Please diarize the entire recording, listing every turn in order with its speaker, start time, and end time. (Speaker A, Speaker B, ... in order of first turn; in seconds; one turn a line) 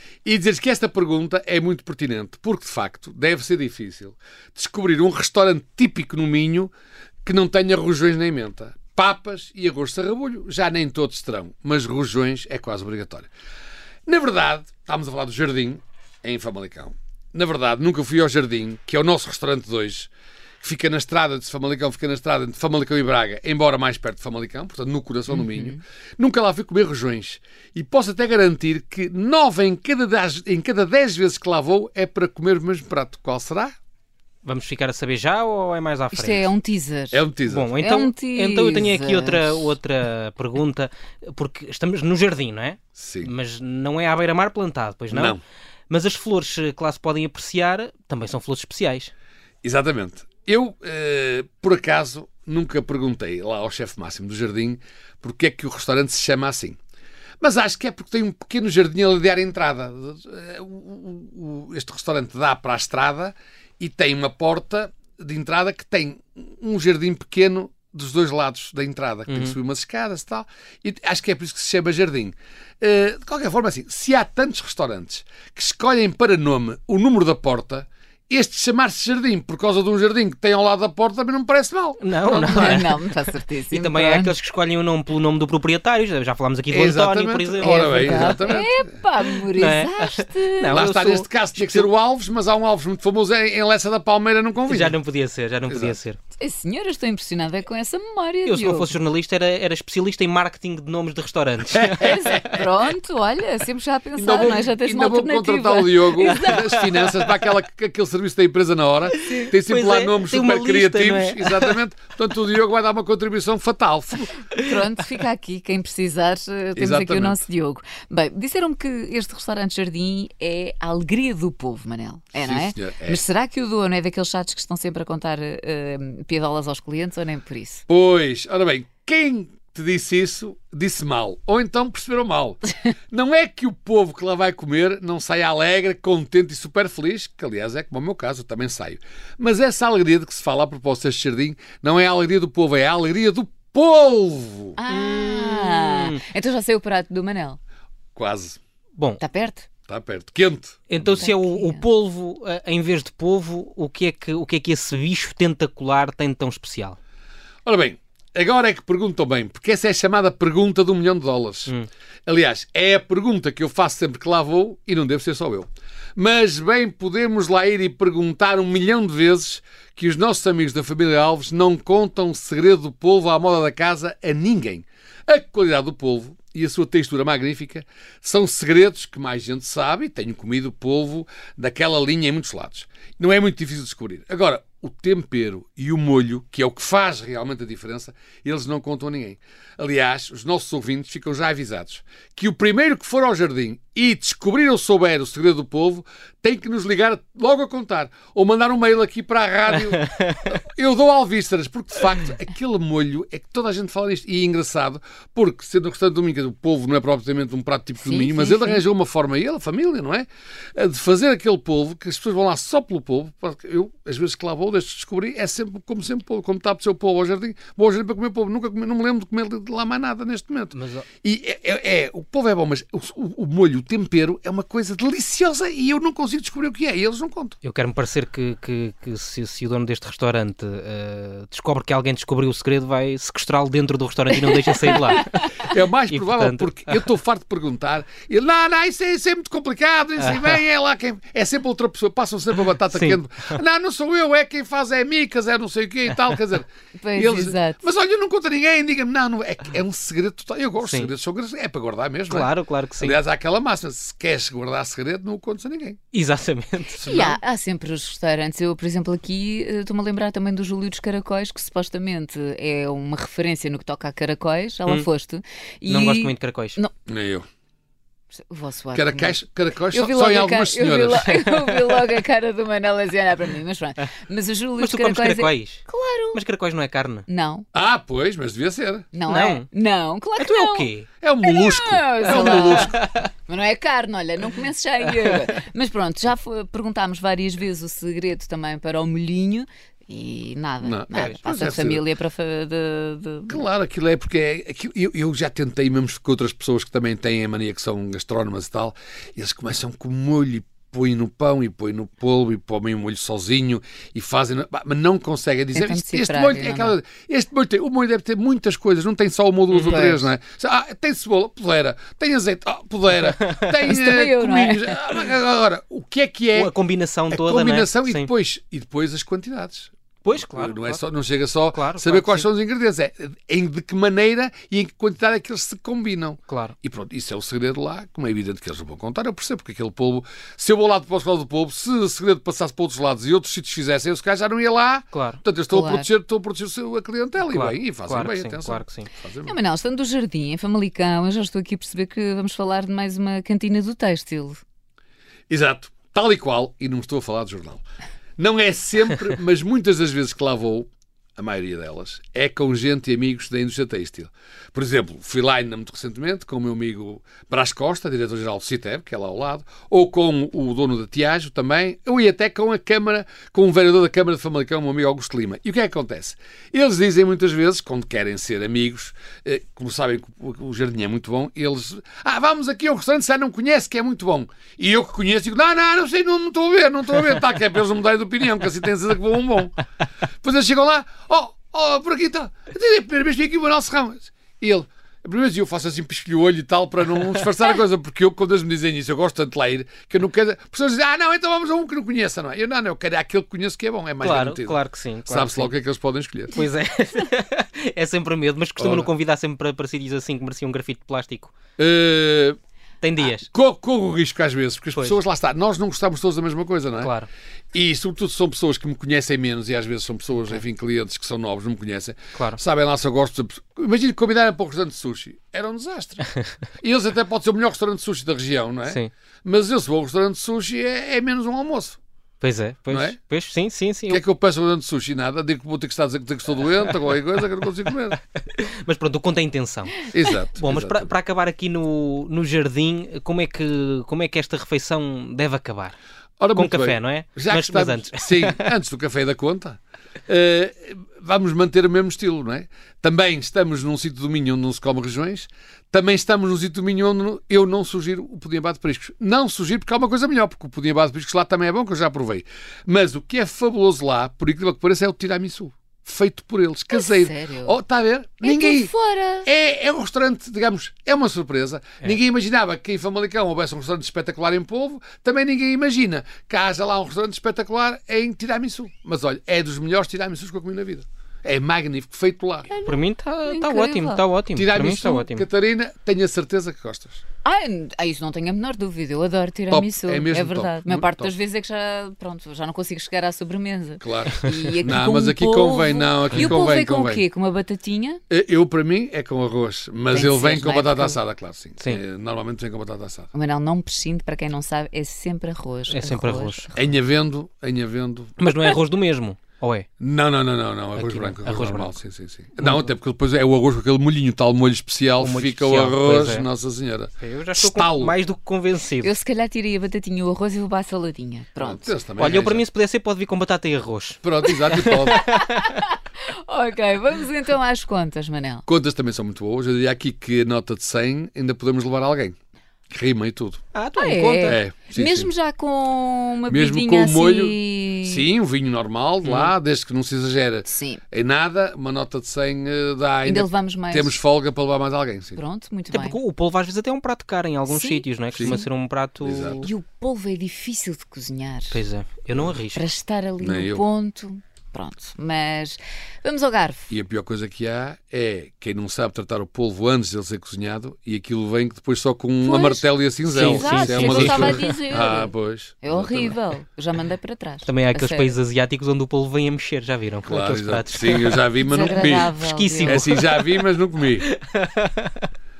Speaker A: 0.2-6.7
Speaker A: 7.2-13.3
Speaker A: 14.1-20.1
Speaker A: 20.6-33.7
Speaker B: 34.4-36.5
Speaker C: 36.1-39.7
Speaker A: 37.1-37.7
Speaker B: 37.5-45.4
Speaker A: 43.0-43.3
Speaker A: 45.1-45.4
Speaker B: 45.9-49.1
Speaker A: 49.6-56.8
Speaker A: 57.4-82.8
Speaker B: 69.3-69.5
Speaker B: 82.0-88.6
Speaker C: 82.3-84.3
Speaker A: 86.7-88.9
Speaker C: 87.6-90.8
Speaker B: 89.2-91.9
Speaker A: 90.7-95.0
Speaker B: 94.7-96.2
Speaker A: 95.7-96.0
Speaker C: 96.4-98.9
Speaker B: 98.5-102.3
Speaker A: 101.7-102.6
Speaker C: 102.0-106.6
Speaker A: 104.2-114.3
Speaker B: 106.2-107.2
Speaker B: 109.1-111.8
Speaker C: 114.5-127.8
Speaker A: 116.8-117.4
Speaker A: 122.4-123.2
Speaker A: 127.9-144.8
Speaker C: 144.8-147.6
Speaker B: 144.9-146.2
Speaker A: 148.1-148.6
Speaker C: 149.2-149.7
Speaker A: 149.9-151.3
Speaker B: 150.9-157.0
Speaker C: 151.2-151.8
Speaker A: 157.6-161.7
Speaker A: 162.3-227.6
Speaker B: 200.0-200.4
Speaker C: 208.0-208.8
Speaker B: 220.7-221.1
Speaker B: 227.6-237.0
Speaker A: 235.6-256.0
Speaker B: 240.2-240.6
Speaker B: 242.8-243.6
Speaker C: 247.0-247.8
Speaker B: 250.8-251.1
Speaker B: 252.3-253.2
Speaker B: 256.1-257.3
Speaker C: 257.0-266.9
Speaker B: 265.9-266.8
Speaker A: 267.1-267.4
Speaker C: 268.3-276.4
Speaker A: 268.9-271.3
Speaker B: 271.3-272.1
Speaker B: 274.8-277.2
Speaker C: 277.3-277.7
Speaker A: 277.7-279.1
Speaker C: 279.1-280.9
Speaker B: 279.3-279.7
Speaker B: 280.4-281.1
Speaker A: 281.2-283.0
Speaker C: 281.4-293.6
Speaker B: 282.3-283.2
Speaker A: 290.8-292.0
Speaker A: 293.5-316.7
Speaker C: 305.7-306.9
Speaker B: 309.7-310.0
Speaker C: 309.8-310.3
Speaker B: 313.4-313.8
Speaker C: 313.9-315.0
Speaker B: 316.5-318.3
Speaker A: 317.3-339.6
Speaker B: 320.2-321.0
Speaker B: 321.7-322.4
Speaker B: 326.5-326.7
Speaker B: 335.1-335.4
Speaker C: 335.7-336.1
Speaker B: 337.4-339.1
Speaker C: 339.4-344.6
Speaker A: 345.5-347.8
Speaker A: 348.4-379.8
Speaker A: 380.4-396.6
Speaker B: 394.2-395.7
Speaker B: 396.5-401.5
Speaker A: 398.8-399.1
Speaker A: 401.8-402.6
Speaker B: 403.0-403.5
Speaker A: 403.4-407.1
Speaker B: 407.0-407.3
Speaker A: 407.7-416.2
Speaker B: 412.3-412.6
Speaker A: 416.8-422.0
Speaker B: 422.4-424.2
Speaker A: 422.9-423.2
Speaker A: 424.1-428.2
Speaker B: 428.5-435.9
Speaker A: 430.0-431.1
Speaker A: 436.4-458.9
Speaker B: 436.5-438.7
Speaker C: 456.9-457.8
Speaker C: 458.4-459.5
Speaker A: 459.4-472.7
Speaker C: 472.7-474.2
Speaker B: 472.9-475.4
Speaker A: 474.5-477.2
Speaker C: 477.4-488.2
Speaker A: 479.7-481.3
Speaker A: 484.0-487.2
Speaker A: 488.3-493.3
Speaker C: 490.1-491.2
Speaker C: 493.3-496.9
Speaker B: 495.9-496.6
Speaker A: 496.7-498.3
Speaker B: 498.4-499.9
Speaker A: 500.0-508.1
Speaker B: 500.9-501.9
Speaker B: 502.6-502.9
Speaker B: 505.2-506.5
Speaker B: 507.2-509.1
Speaker C: 509.0-511.9
Speaker A: 511.6-512.6
Speaker B: 512.2-515.8
Speaker A: 514.2-515.2
Speaker C: 515.1-515.9
Speaker C: 516.5-518.6
Speaker A: 518.7-522.4
Speaker A: 522.9-523.6
Speaker B: 523.7-524.6
Speaker C: 524.0-528.3
Speaker A: 524.4-525.3
Speaker A: 526.5-535.4
Speaker B: 529.2-529.5
Speaker C: 530.7-531.0
Speaker C: 533.2-534.2
Speaker C: 535.4-536.2
Speaker B: 535.9-539.7
Speaker C: 537.7-538.6
Speaker A: 538.3-538.6
Speaker A: 539.2-539.6
Speaker C: 539.6-541.8
Speaker B: 541.7-542.8
Speaker C: 542.7-546.9
Speaker A: 543.4-543.8
Speaker A: 546.9-556.4
Speaker C: 552.4-558.4
Speaker B: 553.3-554.8
Speaker B: 557.6-563.6
Speaker A: 560.2-564.3
Speaker C: 561.6-563.0
Speaker B: 564.2-565.2